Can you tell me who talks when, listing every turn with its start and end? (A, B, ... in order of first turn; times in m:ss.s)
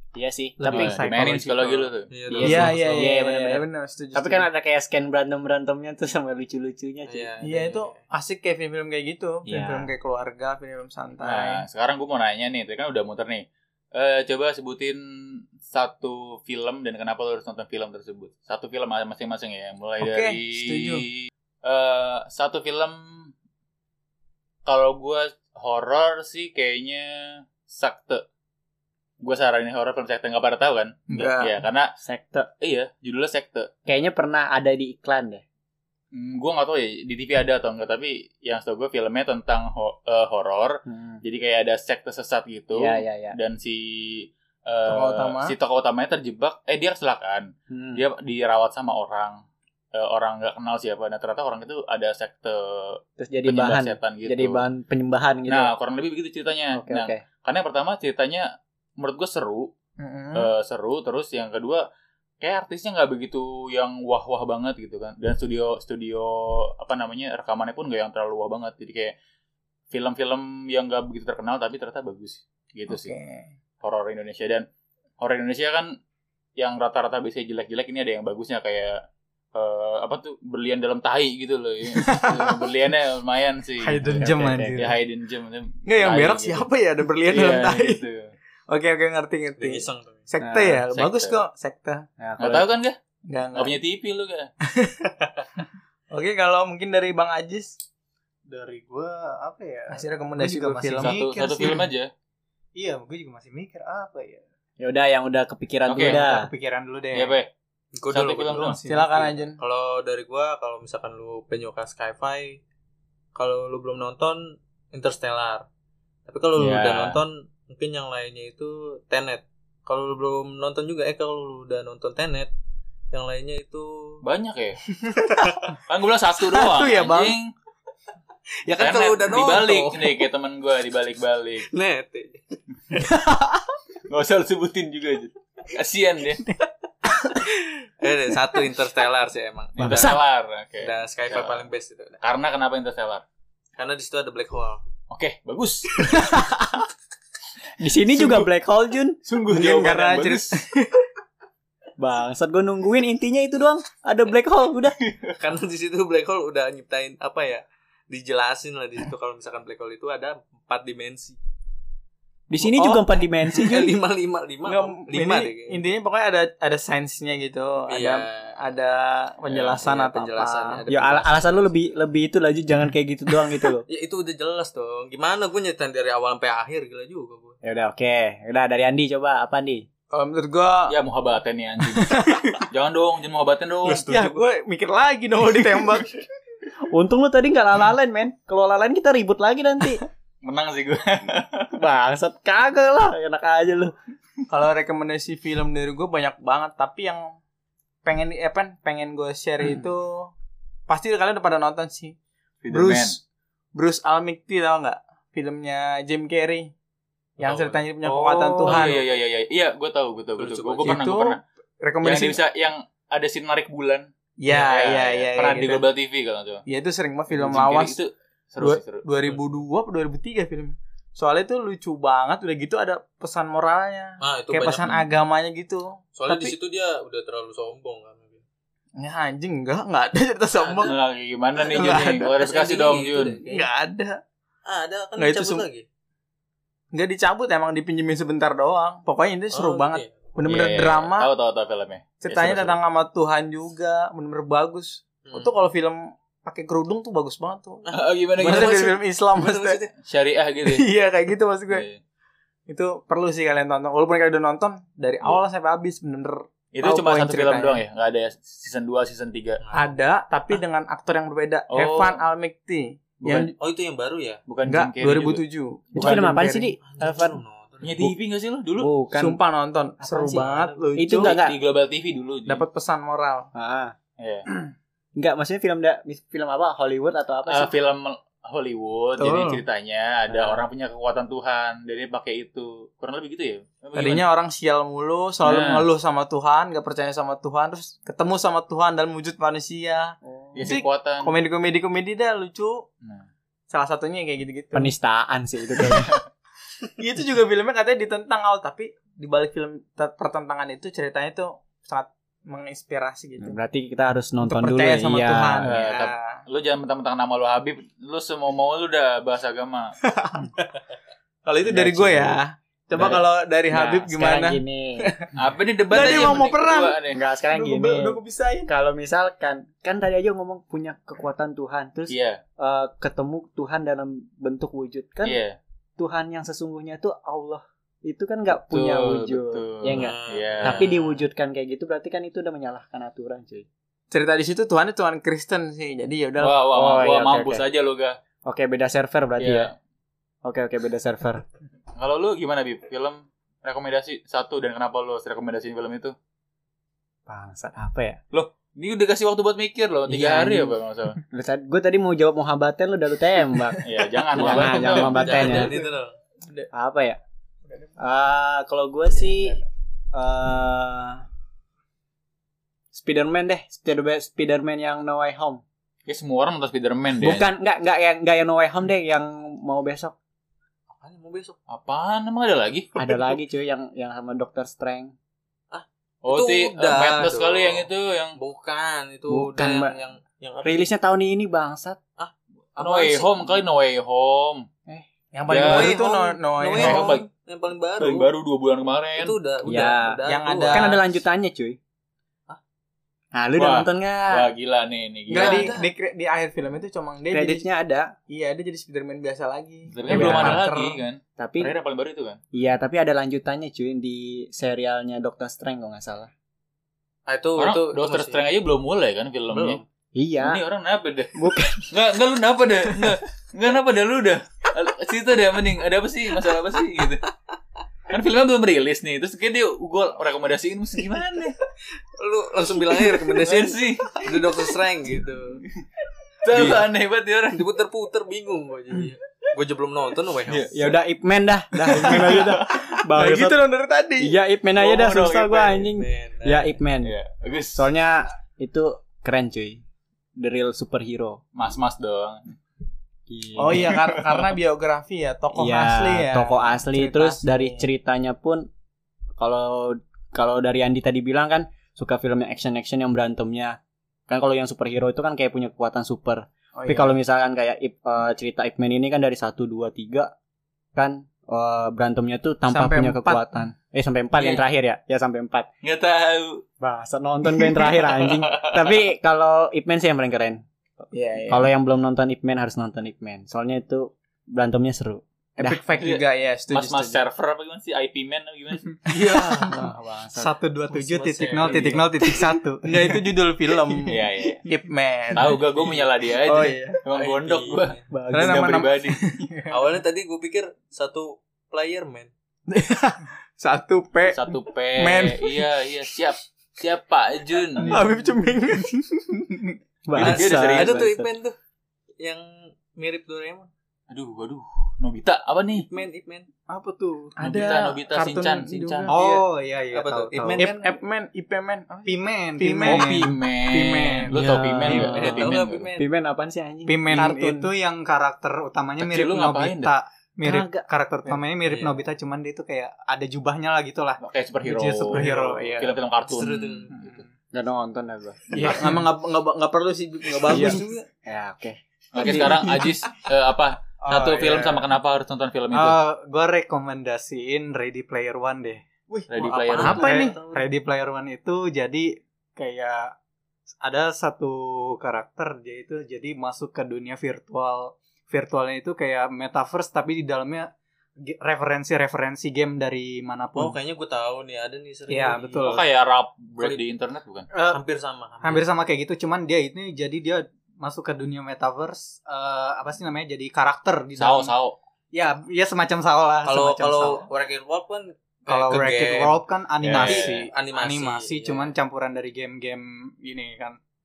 0:00.1-0:01.1 A
0:00.6-0:01.9 B
0:00.6-0:02.7 C
0:02.1-0:03.1 D
0:02.3-0:07.3 A
0:02.4-0:04.5 E
0:07.1-0:08.0 D
0:07.4-0:11.6 E
0:09.5-0:09.9 A
0:11.2-0:15.0 C
0:15.6-0:23.3 C
0:20.0-0:21.0 E
0:24.6-0:28.2 C
0:29.2-0:31.9 C
0:31.1-0:31.6 E
0:32.0-0:32.5 A
0:32.6-0:33.7 C
0:33.8-0:35.4 A
0:36.1-0:49.4 C
0:40.8-0:41.2 A
0:42.7-0:43.4 A
0:44.8-0:45.5 E
0:47.7-0:48.0 A
0:49.9-0:54.6 C
0:53.2-0:55.7 A
0:55.5-0:59.7 C
0:56.7-0:57.2 A
1:00.0-1:00.5 E
1:00.3-1:01.8 C
1:02.4-1:09.1 C
1:09.9-1:13.1 C
1:12.9-1:13.5 E
1:13.8-1:14.7 C
1:15.2-1:16.0 C
1:16.6-1:19.0 C
1:19.5-1:26.7 C
1:22.0-1:22.6 B
1:23.8-1:24.9 B
1:24.1-1:24.9 A
1:25.8-1:28.0 E
1:27.3-1:28.3 C
1:28.7-1:32.0 E
1:29.6-1:30.2 D
1:30.4-1:30.8 A
1:30.9-1:31.4 C
1:32.2-1:32.7 A
1:32.4-1:33.0 C
1:33.3-1:33.7 E
1:33.5-1:34.5 C
1:34.6-1:35.3 E
1:36.1-1:37.8 E
1:38.5-1:41.9 B
1:39.9-1:41.8 E
1:41.0-1:42.1 C
1:42.8-1:44.4 B
1:44.8-1:46.5 A
1:45.9-1:46.2 C
1:46.0-1:47.4 B
1:47.1-1:47.5 C
1:48.0-1:48.7 D
1:48.1-1:48.8 C
1:48.5-1:49.2 B
1:48.8-1:49.6 E
1:49.6-1:52.6 D
1:53.3-1:55.6 D
1:56.3-2:02.5 D
1:56.6-1:57.2 C
2:03.1-2:04.2 D
2:04.2-2:05.1 C
2:05.0-2:05.6 E
2:05.7-2:07.5 C
2:06.5-2:07.4 E
2:08.7-2:10.2 D
2:08.8-2:11.7 C
2:11.6-2:12.6 D
2:14.1-2:16.4 C
2:18.0-2:20.1 D
2:19.8-2:21.6 C
2:19.8-2:20.2 A
2:20.8-2:22.2 D
2:22.2-2:23.2 C
2:23.8-2:24.8 D
2:25.1-2:26.2 C
2:26.0-2:26.7 E
2:27.8-2:29.2 A
2:28.2-2:28.4 C
2:29.2-2:30.6 C
2:29.5-2:31.0 E
2:32.0-2:35.0 A
2:35.4-2:41.4 D
2:42.5-2:44.0 A
2:42.6-2:43.0 E
2:43.5-2:45.8 D
2:44.6-2:50.8 E
2:47.9-2:48.6 D
2:49.5-2:51.7 D
2:50.9-2:53.8 A
2:53.8-2:57.6 D
2:57.6-2:59.8 A
3:00.1-3:00.9 E
3:00.9-3:04.3 C
3:01.9-3:02.6 E
3:03.8-3:06.2 E
3:06.9-3:10.0 A
3:10.4-3:11.8 C
3:11.7-3:13.9 A
3:14.5-3:17.4 E
3:18.0-3:20.3 E
3:20.9-3:22.1 E
3:22.6-3:23.2 C
3:22.7-3:23.2 E
3:23.7-3:26.7 E
3:27.4-3:29.0 E
3:27.4-3:27.8 D
3:28.0-3:28.6 A
3:28.6-3:31.4 C
3:28.6-3:29.0 D
3:30.4-3:31.0 D
3:30.8-3:32.4 E
3:32.0-3:36.6 C
3:34.4-3:35.9 E
3:36.7-3:38.0 E
3:37.3-3:39.0 C
3:38.6-3:46.5 E
3:44.2-3:45.0 D
3:46.2-3:48.4 D
3:49.0-3:50.9 E
3:50.6-3:50.9 D
3:50.8-3:53.4 C
3:51.6-3:52.3 E
3:52.2-3:53.7 D
3:53.4-3:54.2 E
3:54.6-3:55.8 D
3:55.2-3:55.6 E
3:56.9-4:01.3 E
3:59.5-4:00.1 D
4:00.5-4:02.8 C
4:02.2-4:07.8 E
4:05.2-4:05.5 D
4:07.9-4:09.0 C
4:08.4-4:09.8 E
4:08.4-4:09.9 D
4:10.0-4:10.8 C
4:10.6-4:11.8 E
4:11.7-4:12.0 C
4:12.7-4:17.8 E
4:16.7-4:19.6 C
4:19.6-4:19.9 D
4:19.7-4:23.5 E
4:21.7-4:22.2 C
4:23.2-4:23.5 C
4:23.6-4:24.4 D
4:24.5-4:25.4 C
4:24.7-4:26.7 E
4:25.9-4:27.4 A
4:26.9-4:28.1 D
4:27.8-4:28.9 C
4:28.8-4:29.4 A
4:29.1-4:31.3 E
4:30.0-4:31.6 A
4:31.1-4:32.6 C
4:32.4-4:33.5 E
4:33.5-4:33.9 A
4:34.2-4:34.4 C
4:35.2-4:37.7 A
4:37.5-4:44.2 C
4:39.2-4:39.6 E
4:40.3-4:40.7 A
4:43.9-4:52.8 E
4:45.4-4:45.8 C
4:50.2-4:50.7 A
4:50.5-4:51.3 C
4:53.7-4:54.9 E
4:54.7-4:56.2 A
4:57.0-5:03.6 E
5:03.4-5:05.7 A
5:04.4-5:06.4 E
5:05.6-5:09.9 C
5:10.1-5:10.6 E
5:11.4-5:15.3 E
5:11.7-5:12.3 A
5:11.8-5:12.3 C
5:12.9-5:13.2 C
5:13.7-5:15.0 A
5:15.3-5:17.2 C
5:15.9-5:17.0 E
5:17.1-5:25.4 A
5:17.5-5:18.7 E
5:22.1-5:22.4 C
5:25.2-5:25.6 C
5:26.0-5:33.7 A
5:28.5-5:30.9 C
5:29.9-5:31.1 D
5:34.1-5:36.6 E
5:36.4-5:38.2 C
5:36.7-5:37.6 A
5:38.4-5:39.7 A
5:39.4-5:39.7 C
5:40.4-5:41.4 A
5:42.0-5:46.1 C
5:47.3-5:48.2 A
5:48.3-5:51.2 C
5:50.1-5:50.7 A
5:51.3-5:55.7 A
5:53.8-5:55.6 C
5:54.4-5:56.1 D
5:54.6-5:56.7 E
5:56.7-5:57.2 A
5:58.0-6:01.2 A
6:02.9-6:05.6 A
6:06.0-6:07.4 C
6:07.2-6:10.1 A
6:10.9-6:11.6 D
6:11.7-6:12.9 C
6:13.0-6:15.1 A
6:15.7-6:20.8 D
6:16.2-6:18.4 C
6:19.3-6:19.9 A
6:20.6-6:22.0 A
6:22.2-6:23.6 D
6:22.8-6:24.7 C
6:25.3-6:27.2 E
6:25.5-6:25.9 C
6:25.5-6:28.3 D
6:26.8-6:27.2 C
6:28.0-6:29.4 C
6:29.2-6:31.0 D
6:29.6-6:30.2 A
6:30.3-6:31.0 E
6:30.7-6:31.8 A
6:33.3-6:34.5 A
6:33.6-6:35.8 C
6:35.3-6:37.6 E
6:35.3-6:35.9 D
6:37.3-6:38.1 A
6:38.3-6:41.0 E
6:39.9-6:42.4 C
6:40.1-6:40.6 A
6:41.4-6:41.7 A
6:42.5-6:46.3 A
6:47.3-6:48.5 D
6:47.6-6:49.8 C
6:49.5-6:49.8 D
6:50.1-6:50.6 A
6:50.4-6:51.4 C
6:51.3-6:51.9 A
6:51.9-6:57.2 C
6:58.1-7:01.5 C
7:02.2-7:05.6 D
7:03.4-7:04.3 C
7:06.4-7:07.6 C
7:06.5-7:06.8 D
7:07.5-7:10.8 D
7:10.5-7:10.9 C
7:10.7-7:13.6 A
7:11.9-7:12.7 C
7:12.0-7:12.5 E
7:13.1-7:14.3 E
7:14.2-7:17.1 A
7:14.8-7:15.8 C
7:15.9-7:16.7 D
7:17.0-7:17.9 C
7:17.7-7:19.8 A
7:20.4-7:21.4 A
7:21.5-7:22.5 C
7:23.3-7:24.0 A
7:23.6-7:27.8 E
7:25.5-7:28.7 A
7:29.4-7:40.3 A
7:36.7-7:37.2 E
7:40.9-7:45.7 A
7:42.7-7:43.4 E
7:45.8-7:46.6 C
7:46.8-7:50.6 A
7:47.8-7:48.8 C
7:51.1-7:51.7 E
7:51.5-7:55.8 A
7:55.6-7:57.2 E
7:56.0-7:59.0 C
7:59.1-7:59.8 E
7:59.6-8:00.5 A
8:00.3-8:03.2 B
8:00.9-8:02.1 D
8:02.8-8:04.1 E
8:04.1-8:04.6 C
8:04.6-8:05.6 E
8:05.3-8:09.3 C
8:06.4-8:07.0 E
8:07.1-8:08.0 D
8:08.1-8:08.8 A
8:08.3-8:09.4 E
8:09.7-8:12.3 D
8:12.7-8:15.6 E
8:14.3-8:18.1 C
8:17.8-8:19.6 E
8:20.1-8:21.3 A
8:20.1-8:21.0 C
8:20.2-8:21.6 D
8:22.2-8:23.7 D
8:24.1-8:25.9 C
8:25.8-8:26.5 D
8:26.7-8:27.4 B
8:27.4-8:29.4 E
8:27.4-8:29.1 C
8:29.1-8:30.7 B
8:29.9-8:30.9 D
8:30.6-8:34.3 E
8:32.0-8:33.2 B
8:32.8-8:35.9 C
8:34.3-8:37.7 A
8:34.9-8:35.5 E
8:34.9-8:36.0 D
8:36.8-8:45.9 B
8:39.0-8:39.9 C
8:40.4-8:40.8 A
8:44.2-8:47.2 C
8:45.1-8:45.8 E
8:46.2-8:47.0 D
8:46.9-8:47.2 B
8:47.5-8:48.8 A
8:48.5-8:51.1 E
8:48.5-8:49.0 B
8:50.4-8:51.8 A
8:52.1-8:56.0 C
8:52.2-8:52.8 E
8:54.0-8:54.9 B
8:55.7-8:58.8 B
8:59.1-9:00.4 E
8:59.3-9:00.0 C
8:59.5-9:00.6 D
8:59.8-9:03.1 B
9:03.8-9:10.7 B
9:11.2-9:13.8 B
9:13.6-9:15.8 D
9:15.1-9:15.8 E
9:15.6-9:17.5 C
9:17.5-9:17.8 B
9:17.7-9:18.6 D
9:18.4-9:24.5 B
9:24.2-9:24.8 C
9:25.1-9:27.3 B
9:26.4-9:29.4 D
9:28.5-9:33.8 B
9:29.8-9:30.5 C
9:29.9-9:31.7 D